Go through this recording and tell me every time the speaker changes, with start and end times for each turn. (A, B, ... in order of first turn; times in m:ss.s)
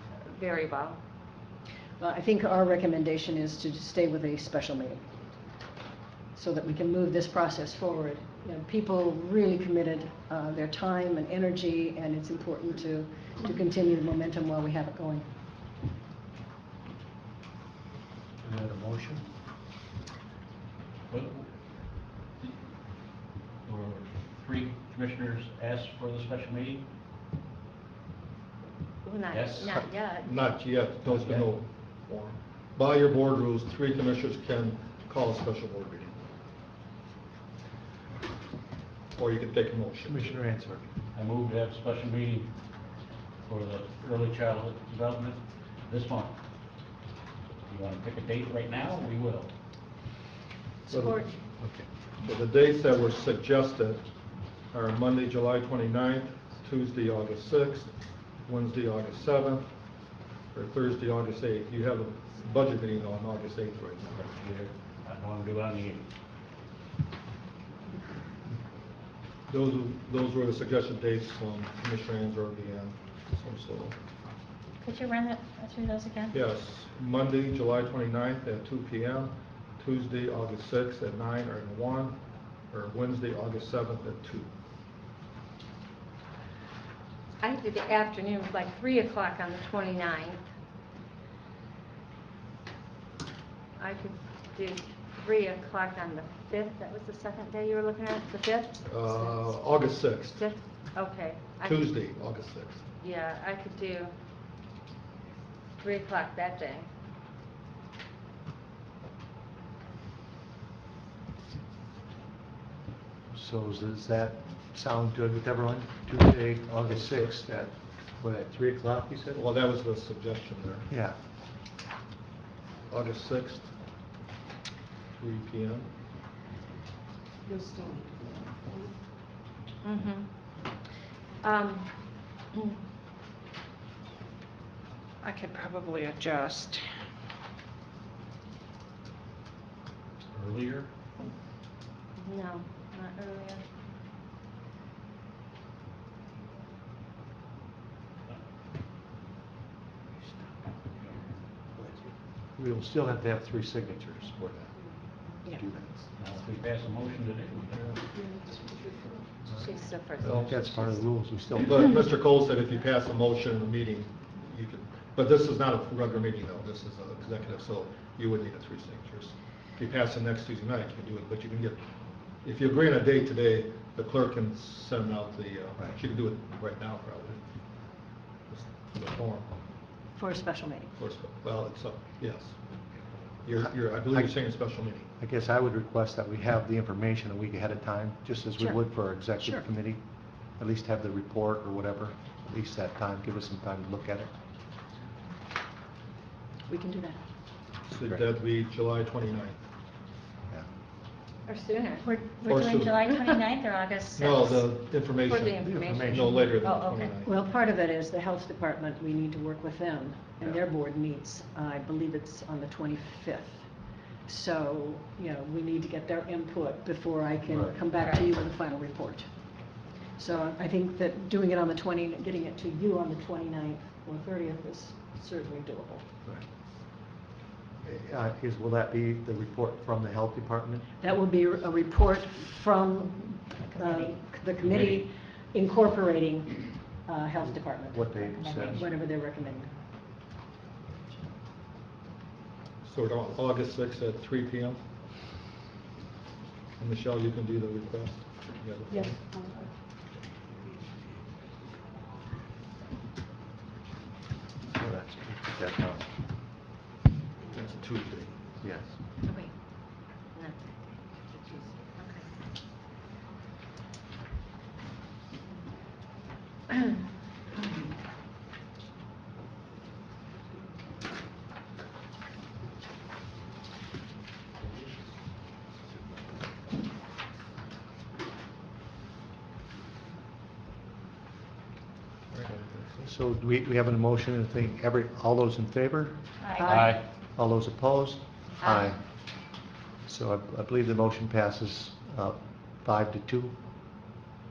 0:00.2-0:01.0 A
0:02.0-0:05.0 B
0:06.3-0:15.3 B
0:18.4-0:19.2 C
0:21.1-0:21.5 D
0:23.6-0:26.8 D
0:29.0-0:30.3 A
0:29.3-0:29.8 D
0:30.2-0:36.2 E
0:31.0-0:31.5 D
0:39.1-0:40.4 E
0:40.0-0:40.8 C
0:41.1-0:42.5 D
0:43.4-0:46.3 D
0:47.7-0:49.5 D
0:50.9-0:51.2 E
0:50.9-0:51.2 A
0:50.9-0:51.8 C
0:52.2-0:54.1 E
0:54.7-0:59.7 E
1:00.5-1:04.2 E
1:04.1-1:06.1 D
1:09.5-1:14.0 E
1:14.8-1:16.4 F
1:16.3-1:22.2 E
1:22.7-1:24.5 E
1:27.4-1:30.4 A
1:33.8-1:39.5 A
1:38.8-1:40.4 E
1:40.3-1:41.8 A
1:41.6-1:42.8 E
1:43.0-1:44.1 A
1:45.8-1:46.9 A
1:53.3-1:59.4 C
1:56.8-1:57.3 E
1:59.3-2:00.9 E
2:00.9-2:01.2 C
2:02.9-2:03.7 E
2:05.1-2:05.9 E
2:07.5-2:08.3 G
2:09.8-2:10.3 A
2:11.4-2:12.8 A
2:15.2-2:16.8 G
2:20.3-2:20.9 D
2:22.2-2:23.6 A
2:32.5-2:36.0 C
2:36.2-2:38.0 D
2:39.5-2:41.0 A
2:39.5-2:42.0 C
2:41.6-2:51.8 E
2:52.4-2:57.4 E
2:58.5-2:59.5 E
3:00.1-3:00.9 B
3:01.0-3:02.6 E
3:03.4-3:05.1 E
3:03.5-3:04.6 C
3:05.2-3:10.0 C
3:09.4-3:09.7 B
3:10.5-3:14.3 C
3:16.7-3:17.2 B
3:17.9-3:19.6 E
3:21.5-3:22.0 A
3:22.0-3:24.7 F
3:22.4-3:23.1 E
3:24.2-3:27.4 E
3:25.2-3:27.2 A
3:25.6-3:26.4 C
3:27.2-3:46.2 B
3:37.5-3:37.7 C
3:38.0-3:38.2 A
3:47.8-3:50.9 C
3:50.9-3:59.7 B
3:53.7-3:54.1 F
3:54.6-3:55.0 D
3:57.4-3:58.9 C
3:58.4-3:58.8 F
4:02.8-4:04.8 E
4:06.8-4:09.3 E
4:08.9-4:09.6 G
4:14.7-4:16.1 C
4:17.5-4:18.4 E
4:18.6-4:19.0 C
4:20.2-4:21.0 A
4:22.0-4:22.3 A
4:42.3-4:43.1 E
4:43.0-4:49.0 C
4:46.4-4:46.7 F
4:46.6-4:47.0 B
4:46.7-4:47.0 D
4:50.0-4:53.5 C